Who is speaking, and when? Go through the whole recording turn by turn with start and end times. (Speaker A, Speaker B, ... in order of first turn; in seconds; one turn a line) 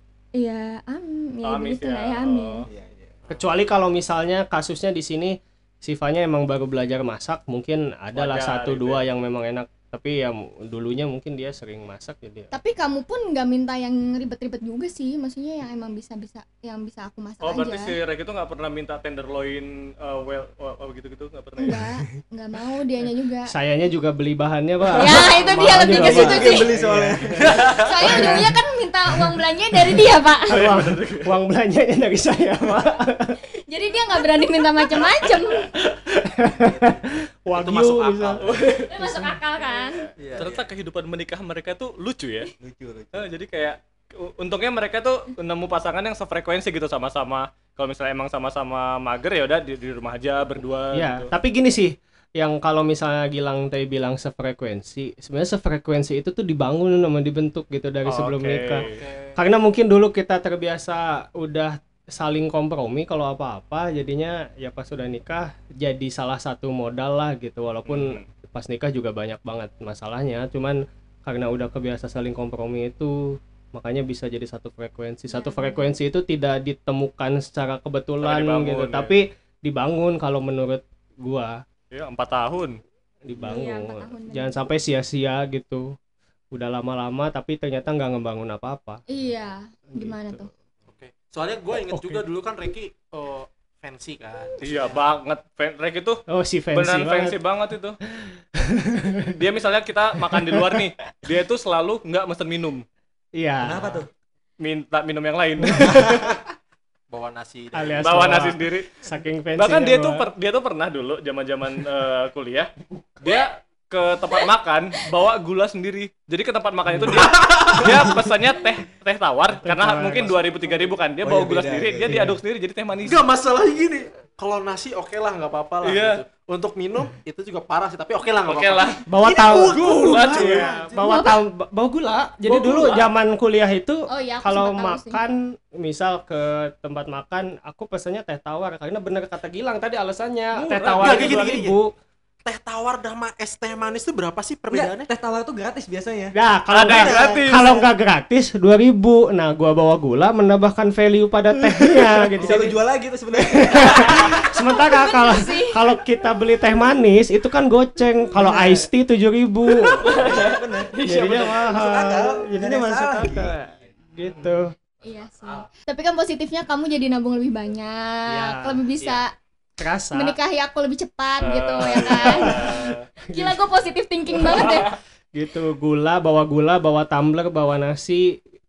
Speaker A: 0.4-2.7
Speaker B: 1.4-2.6
Speaker C: 2.7-3.2
Speaker D: 3.3-12.5
Speaker B: 8.2-9.0
Speaker A: 12.5-18.0
Speaker B: 17.4-21.8
Speaker A: 21.6-23.5
Speaker D: 23.5-27.3
Speaker B: 24.9-25.2
Speaker A: 25.0-26.7
Speaker C: 25.9-27.8
Speaker E: 27.5-27.9
Speaker A: 27.7-30.6
Speaker D: 28.0-28.6
Speaker B: 30.5-31.3
Speaker D: 30.5-33.4
Speaker A: 33.7-35.7
Speaker D: 35.8-38.4
Speaker E: 36.6-38.6
Speaker B: 38.4-38.9
Speaker A: 38.9-40.1
Speaker E: 40.2-40.6
Speaker B: 40.4-42.5
Speaker C: 42.6-43.3
Speaker B: 43.1-51.3
Speaker D: 50.9-58.8
Speaker B: 58.0-59.0
Speaker E: 58.8-59.4
Speaker D: 59.4-81.6
Speaker B: 67.9-68.2
Speaker A: 75.3-75.9
Speaker B: 78.2-79.1
Speaker B: 81.9-82.8
Speaker D: 83.2-85.9
Speaker A: 83.4-84.6
Speaker D: 86.5-89.0
Speaker A: 89.1-90.5
Speaker D: 89.9-90.4
Speaker E: 90.9-95.0
Speaker D: 91.8-92.2
Speaker B: 94.6-96.2
Speaker D: 96.3-97.4
Speaker B: 96.7-98.0
Speaker D: 98.1-99.3
Speaker B: 99.3-102.8
Speaker D: 100.2-100.9
Speaker D: 103.4-104.0
Speaker C: 103.6-104.1
Speaker B: 104.6-106.4
Speaker D: 105.6-106.1
Speaker C: 105.9-106.3
Speaker E: 107.1-108.4
Speaker D: 107.7-110.3
Speaker B: 108.0-109.0
Speaker B: 109.6-112.7
Speaker B: 113.2-123.2
Speaker E: 117.0-118.1
Speaker D: 119.6-120.4
Speaker C: 121.2-122.3
Speaker D: 122.1-122.4
Speaker E: 123.0-131.1
Speaker B: 125.8-126.2
Speaker B: 128.5-130.7
Speaker D: 129.1-141.9
Speaker A: 131.0-131.4
Speaker B: 132.5-133.1
Speaker A: 134.1-135.2
Speaker E: 140.7-141.8
Speaker B: 140.7-141.4
Speaker E: 142.4-145.1
Speaker C: 144.7-147.4
Speaker D: 146.3-152.7
Speaker B: 146.7-147.8
Speaker C: 152.3-154.5
Speaker D: 153.6-160.1
Speaker A: 154.6-155.8
Speaker C: 158.4-158.8
Speaker B: 160.0-161.7
Speaker C: 160.1-161.0
Speaker D: 161.1-164.7
Speaker C: 161.7-163.6
Speaker E: 164.2-164.5
Speaker A: 165.0-169.3
Speaker E: 165.3-165.6
Speaker D: 168.3-169.2
Speaker D: 169.8-170.4
Speaker A: 170.1-174.9
Speaker B: 171.4-173.0
Speaker D: 172.2-173.6
Speaker D: 174.4-174.8
Speaker B: 174.6-174.9
Speaker D: 175.3-178.4